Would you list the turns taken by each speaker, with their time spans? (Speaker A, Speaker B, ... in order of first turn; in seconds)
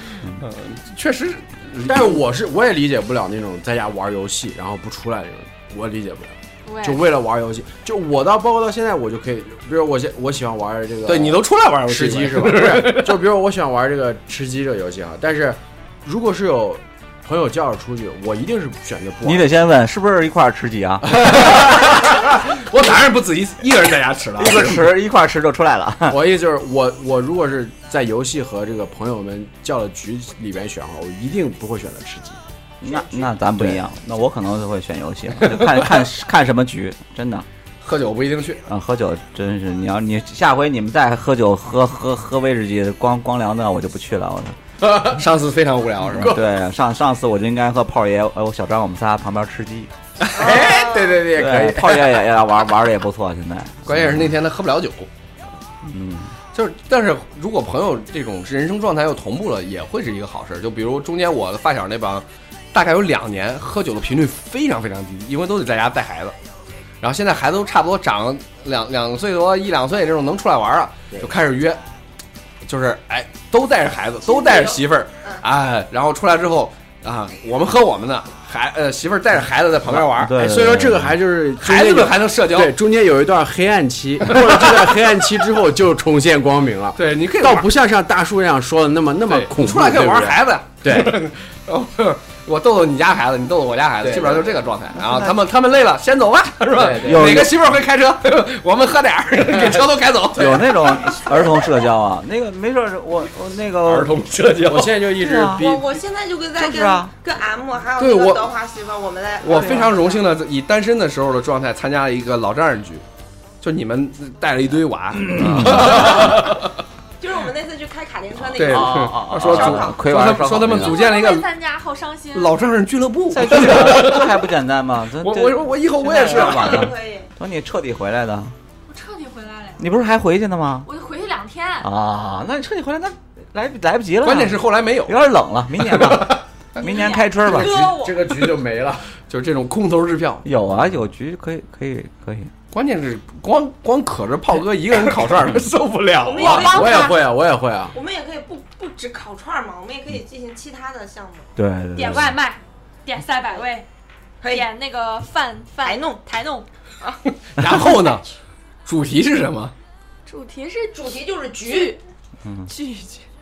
Speaker A: 0.4-2.2, 11.1-13.2, 21.1-24.9, 37.8-38.6, 44.8-46.4, 50.2-50.5, 53.9-55.1, 56.5-66.4, 67.0-71.8, 72.7-80.4, 81.6-82.8, 84.3-85.2, 87.0-87.7, 89.3-100.7, 103.8-105.0, 108.0-108.5, 109.4-113.0, 113.6-116.7, 118.6-121.5, 122.3-124.4, 125.2-127.0, 134.2-135.2, 135.9-136.4, 139.3-140.5, 142.7-146.8, 157.6-158.2, 158.9-159.7
Speaker B: 1.8-19.5, 21.2-22.1, 26.1-32.4, 50.3-52.2, 80.3-91.2, 94.0-94.6, 96.7-97.5, 99.5-99.8, 104.6-106.0, 137.6-139.1, 146.4-147.9
Speaker C: 6.7-7.1, 120.7-122.6, 128.9-129.9, 130.8-131.9, 136.8-138.0, 146.4-147.2, 151.9-153.9, 154.4-156.7, 160.3-162.0, 162.7-163.3
Speaker D: 19.2-21.5, 24.4-26.2, 32.8-37.5, 38.7-44.6, 46.0-49.9, 51.3-54.3, 55.9-56.3, 79.9-81.2, 95.0-95.3, 97.0-97.6, 100.4-104.1, 105.1-105.8, 106.6-107.1, 115.2-116.5, 118.6-121.0, 123.3-128.6, 129.8-130.9, 131.8-137.9, 140.4-142.5, 151.6-152.4
Speaker E: 32.9-33.2, 50.4-51.2, 74.3-75.4, 105.5-110.3, 117.2-120.0, 126.1-127.3, 137.5-138.2, 146.2-147.2, 147.9-151.5, 154.4-154.7, 155.8-156.2, 160.9-162.0